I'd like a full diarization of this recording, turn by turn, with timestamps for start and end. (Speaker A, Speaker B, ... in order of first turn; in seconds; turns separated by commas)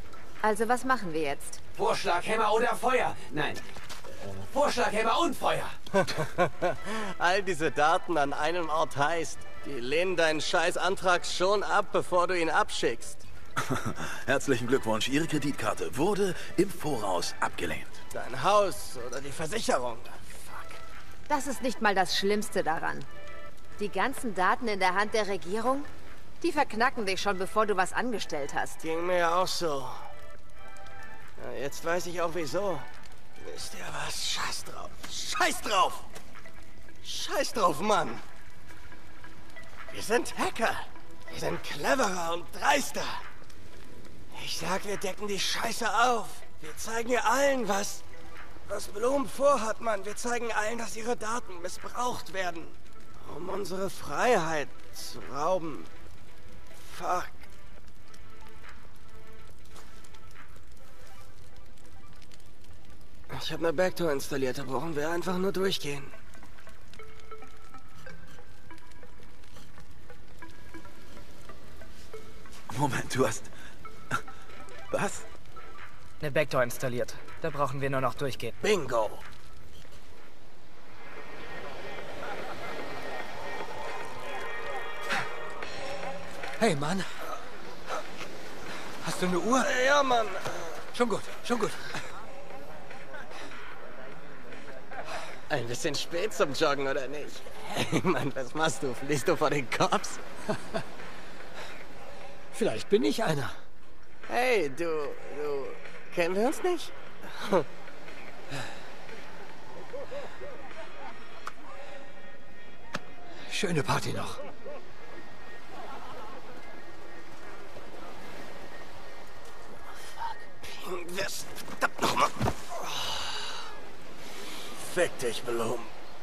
Speaker A: 0.4-1.6, Speaker B: 1.7-5.8, Speaker C: 5.9-13.2, Speaker D: 13.6-18.0, Speaker C: 18.1-20.8, Speaker A: 21.3-23.1, Speaker A: 23.8-25.9, Speaker A: 26.4-28.8, Speaker C: 28.8-30.0, Speaker C: 31.4-32.9, Speaker C: 33.4-36.1, Speaker C: 37.0-38.2, Speaker C: 39.9-43.2, Speaker C: 44.3-48.0, Speaker C: 48.7-55.9, Speaker C: 56.8-57.5, Speaker C: 63.3-66.1, Speaker D: 72.7-73.5, Speaker D: 74.9-75.2, Speaker E: 76.2-78.5, Speaker C: 78.6-79.2, Speaker F: 86.6-87.1, Speaker F: 89.0-89.7, Speaker C: 89.5-90.8, Speaker F: 90.9-91.9, Speaker C: 95.5-100.2, Speaker F: 102.5-103.5, Speaker C: 104.3-107.7, Speaker F: 113.5-114.4, Speaker C: 120.6-123.7, Speaker C: 124.8-125.9